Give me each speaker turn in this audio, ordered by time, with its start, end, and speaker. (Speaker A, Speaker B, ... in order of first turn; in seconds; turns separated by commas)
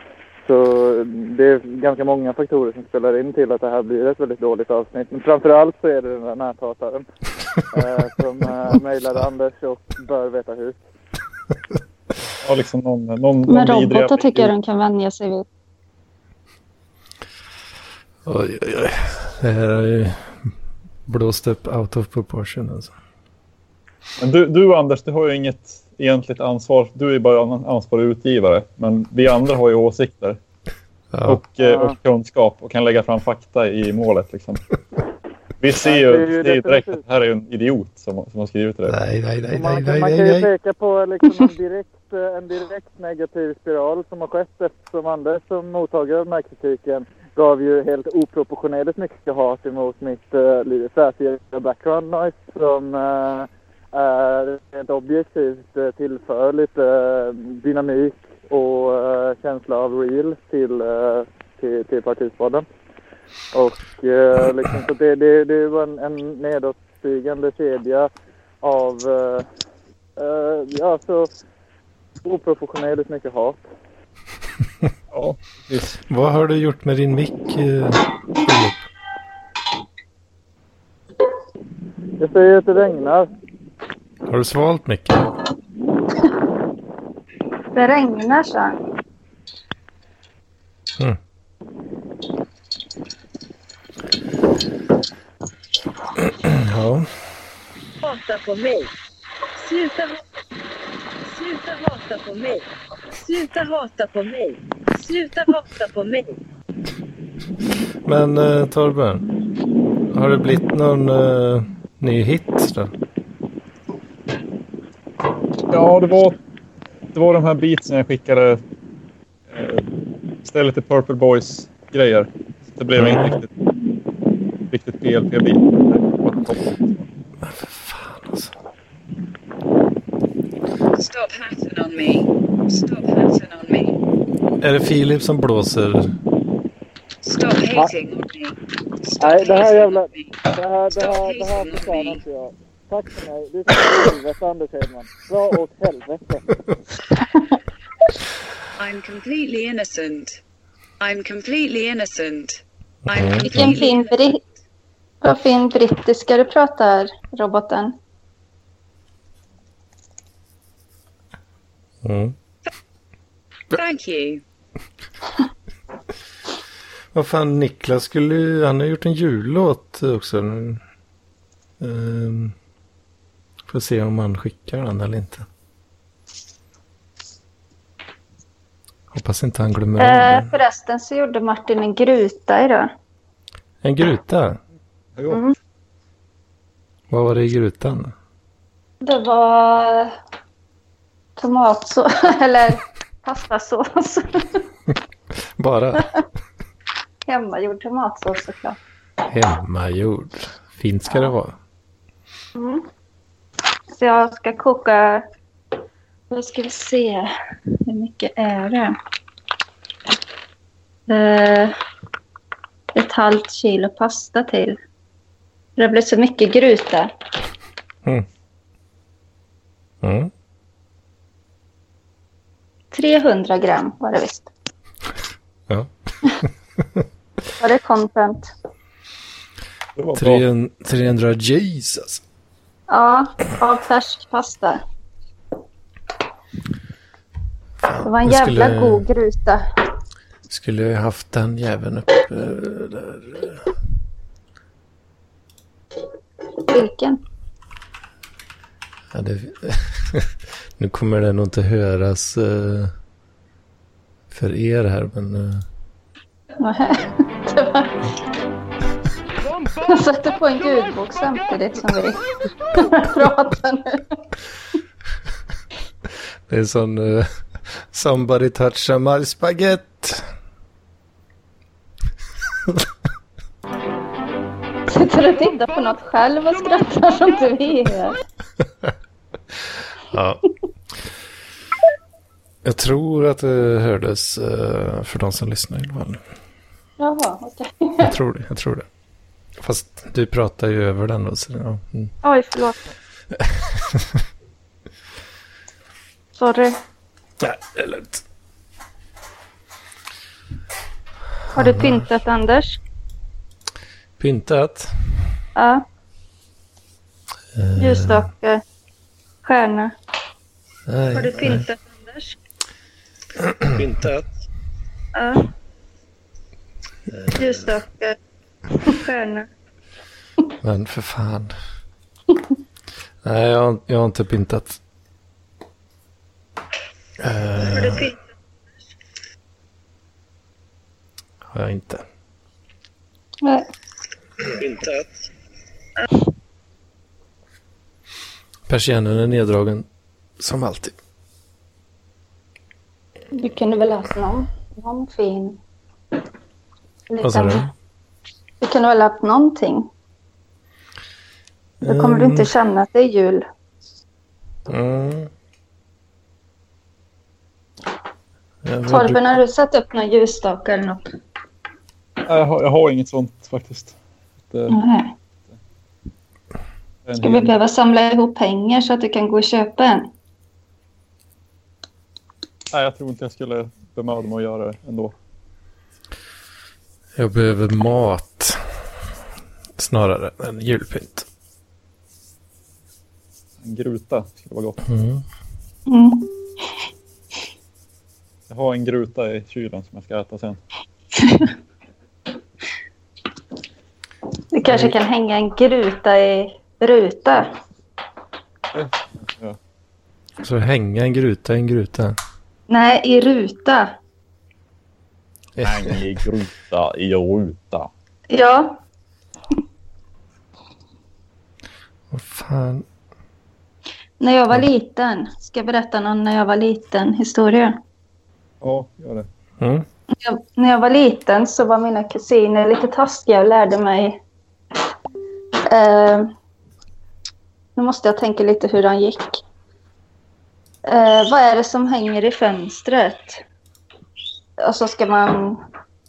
Speaker A: 0.4-7.0, Speaker A: 7.7-10.8, Speaker B: 12.4-14.5, Speaker C: 13.5-15.4, Speaker D: 18.2-20.5, Speaker D: 21.1-22.9, Speaker B: 24.2-30.4, Speaker D: 31.1-31.4, Speaker B: 31.2-34.6, Speaker A: 31.6-31.9, Speaker B: 35.6-39.0, Speaker A: 35.8-37.0, Speaker D: 38.9-40.5, Speaker A: 39.5-62.6, Speaker A: 63.5-68.1, Speaker A: 68.6-69.4, Speaker A: 70.2-71.3, Speaker A: 72.2-73.6, Speaker B: 75.1-75.9, Speaker D: 76.0-78.9, Speaker A: 82.2-83.3, Speaker D: 84.3-85.3, Speaker C: 87.7-88.8, Speaker D: 96.2-97.1, Speaker E: 98.0-98.9, Speaker E: 99.6-100.2, Speaker E: 101.2-106.4, Speaker D: 108.0-109.2, Speaker D: 110.0-112.9, Speaker B: 115.7-116.4, Speaker B: 117.1-118.6, Speaker B: 119.5-119.8, Speaker B: 120.4-123.5, Speaker D: 123.0-123.3, Speaker B: 124.7-127.1, Speaker D: 127.4-128.5, Speaker F: 130.9-134.0, Speaker D: 134.6-136.1, Speaker F: 137.2-140.4, Speaker A: 139.2-146.4, Speaker F: 140.9-142.2, Speaker F: 148.8-150.4, Speaker F: 151.0-154.2, Speaker D: 153.1-153.8, Speaker C: 153.4-154.4, Speaker C: 155.2-157.9, Speaker D: 162.0-162.3, Speaker F: 163.7-164.4, Speaker D: 167.1-170.8, Speaker D: 171.8-172.5, Speaker D: 173.7-175.4, Speaker D: 179.1-180.5, Speaker C: 180.0-182.9, Speaker D: 183.8-184.6, Speaker C: 185.3-185.5, Speaker D: 187.1-188.1, Speaker C: 189.0-190.2, Speaker C: 191.4-194.7, Speaker D: 195.6-196.0, Speaker C: 197.2-198.8, Speaker D: 199.3-201.6, Speaker C: 201.1-201.3, Speaker C: 202.5-202.9, Speaker C: 203.9-205.2, Speaker C: 206.3-207.3, Speaker C: 207.8-209.0, Speaker C: 211.1-211.7, Speaker C: 212.9-214.8, Speaker C: 215.8-217.1, Speaker D: 220.0-220.3, Speaker C: 222.9-224.5, Speaker C: 227.6-228.5, Speaker B: 230.0-230.4, Speaker D: 230.2-232.2, Speaker C: 232.9-234.8, Speaker D: 237.8-239.0, Speaker C: 238.0-239.7, Speaker D: 240.5-243.6, Speaker C: 246.7-247.2, Speaker D: 249.1-252.9, Speaker D: 254.3-255.6, Speaker C: 256.6-257.9, Speaker C: 259.8-264.2, Speaker D: 266.5-270.2, Speaker C: 274.9-278.2, Speaker D: 280.1-280.4, Speaker D: 282.6-286.2, Speaker C: 287.0-288.1, Speaker D: 288.0-288.9, Speaker D: 289.6-292.1, Speaker C: 292.2-292.8, Speaker D: 293.3-294.2, Speaker C: 296.3-296.8, Speaker D: 297.4-298.2, Speaker D: 301.5-302.1, Speaker C: 301.5-302.8, Speaker D: 304.2-305.2, Speaker C: 305.6-305.8, Speaker D: 307.5-308.3, Speaker C: 307.8-308.6, Speaker C: 309.4-309.9, Speaker D: 310.9-311.6, Speaker C: 311.1-312.4, Speaker D: 313.4-314.2, Speaker C: 315.1-315.5, Speaker D: 317.1-317.6, Speaker C: 317.3-318.2, Speaker C: 318.8-319.5, Speaker D: 320.6-321.5, Speaker D: 323.2-324.8, Speaker D: 327.2-328.1, Speaker C: 327.6-328.2, Speaker D: 331.5-332.0, Speaker C: 333.4-333.7, Speaker D: 338.7-339.9, Speaker D: 340.4-341.0, Speaker C: 343.3-345.6, Speaker C: 347.1-347.7, Speaker D: 347.2-347.7, Speaker C: 348.6-349.9, Speaker D: 351.8-352.5, Speaker C: 351.8-353.4, Speaker D: 354.7-355.3, Speaker D: 358.6-359.2, Speaker C: 358.9-361.0, Speaker B: 362.2-363.9, Speaker B: 364.5-364.8, Speaker C: 364.7-365.1, Speaker B: 367.1-367.5, Speaker C: 367.2-370.1, Speaker B: 372.7-375.1, Speaker D: 377.1-378.6, Speaker D: 379.8-381.3, Speaker B: 383.6-384.8, Speaker D: 384.9-385.2, Speaker C: 385.9-386.3, Speaker B: 388.5-390.6, Speaker C: 391.1-391.5, Speaker C: 394.5-397.5, Speaker B: 398.7-399.6, Speaker D: 400.4-402.2, Speaker C: 402.7-404.0, Speaker D: 405.6-405.9, Speaker B: 405.6-407.9, Speaker C: 408.3-408.8, Speaker D: 412.1-412.8, Speaker C: 414.2-417.8, Speaker B: 418.6-419.3, Speaker D: 419.6-419.9, Speaker C: 420.1-424.2, Speaker C: 425.7-426.3, Speaker C: 427.8-429.4, Speaker C: 430.9-433.4, Speaker C: 434.6-435.6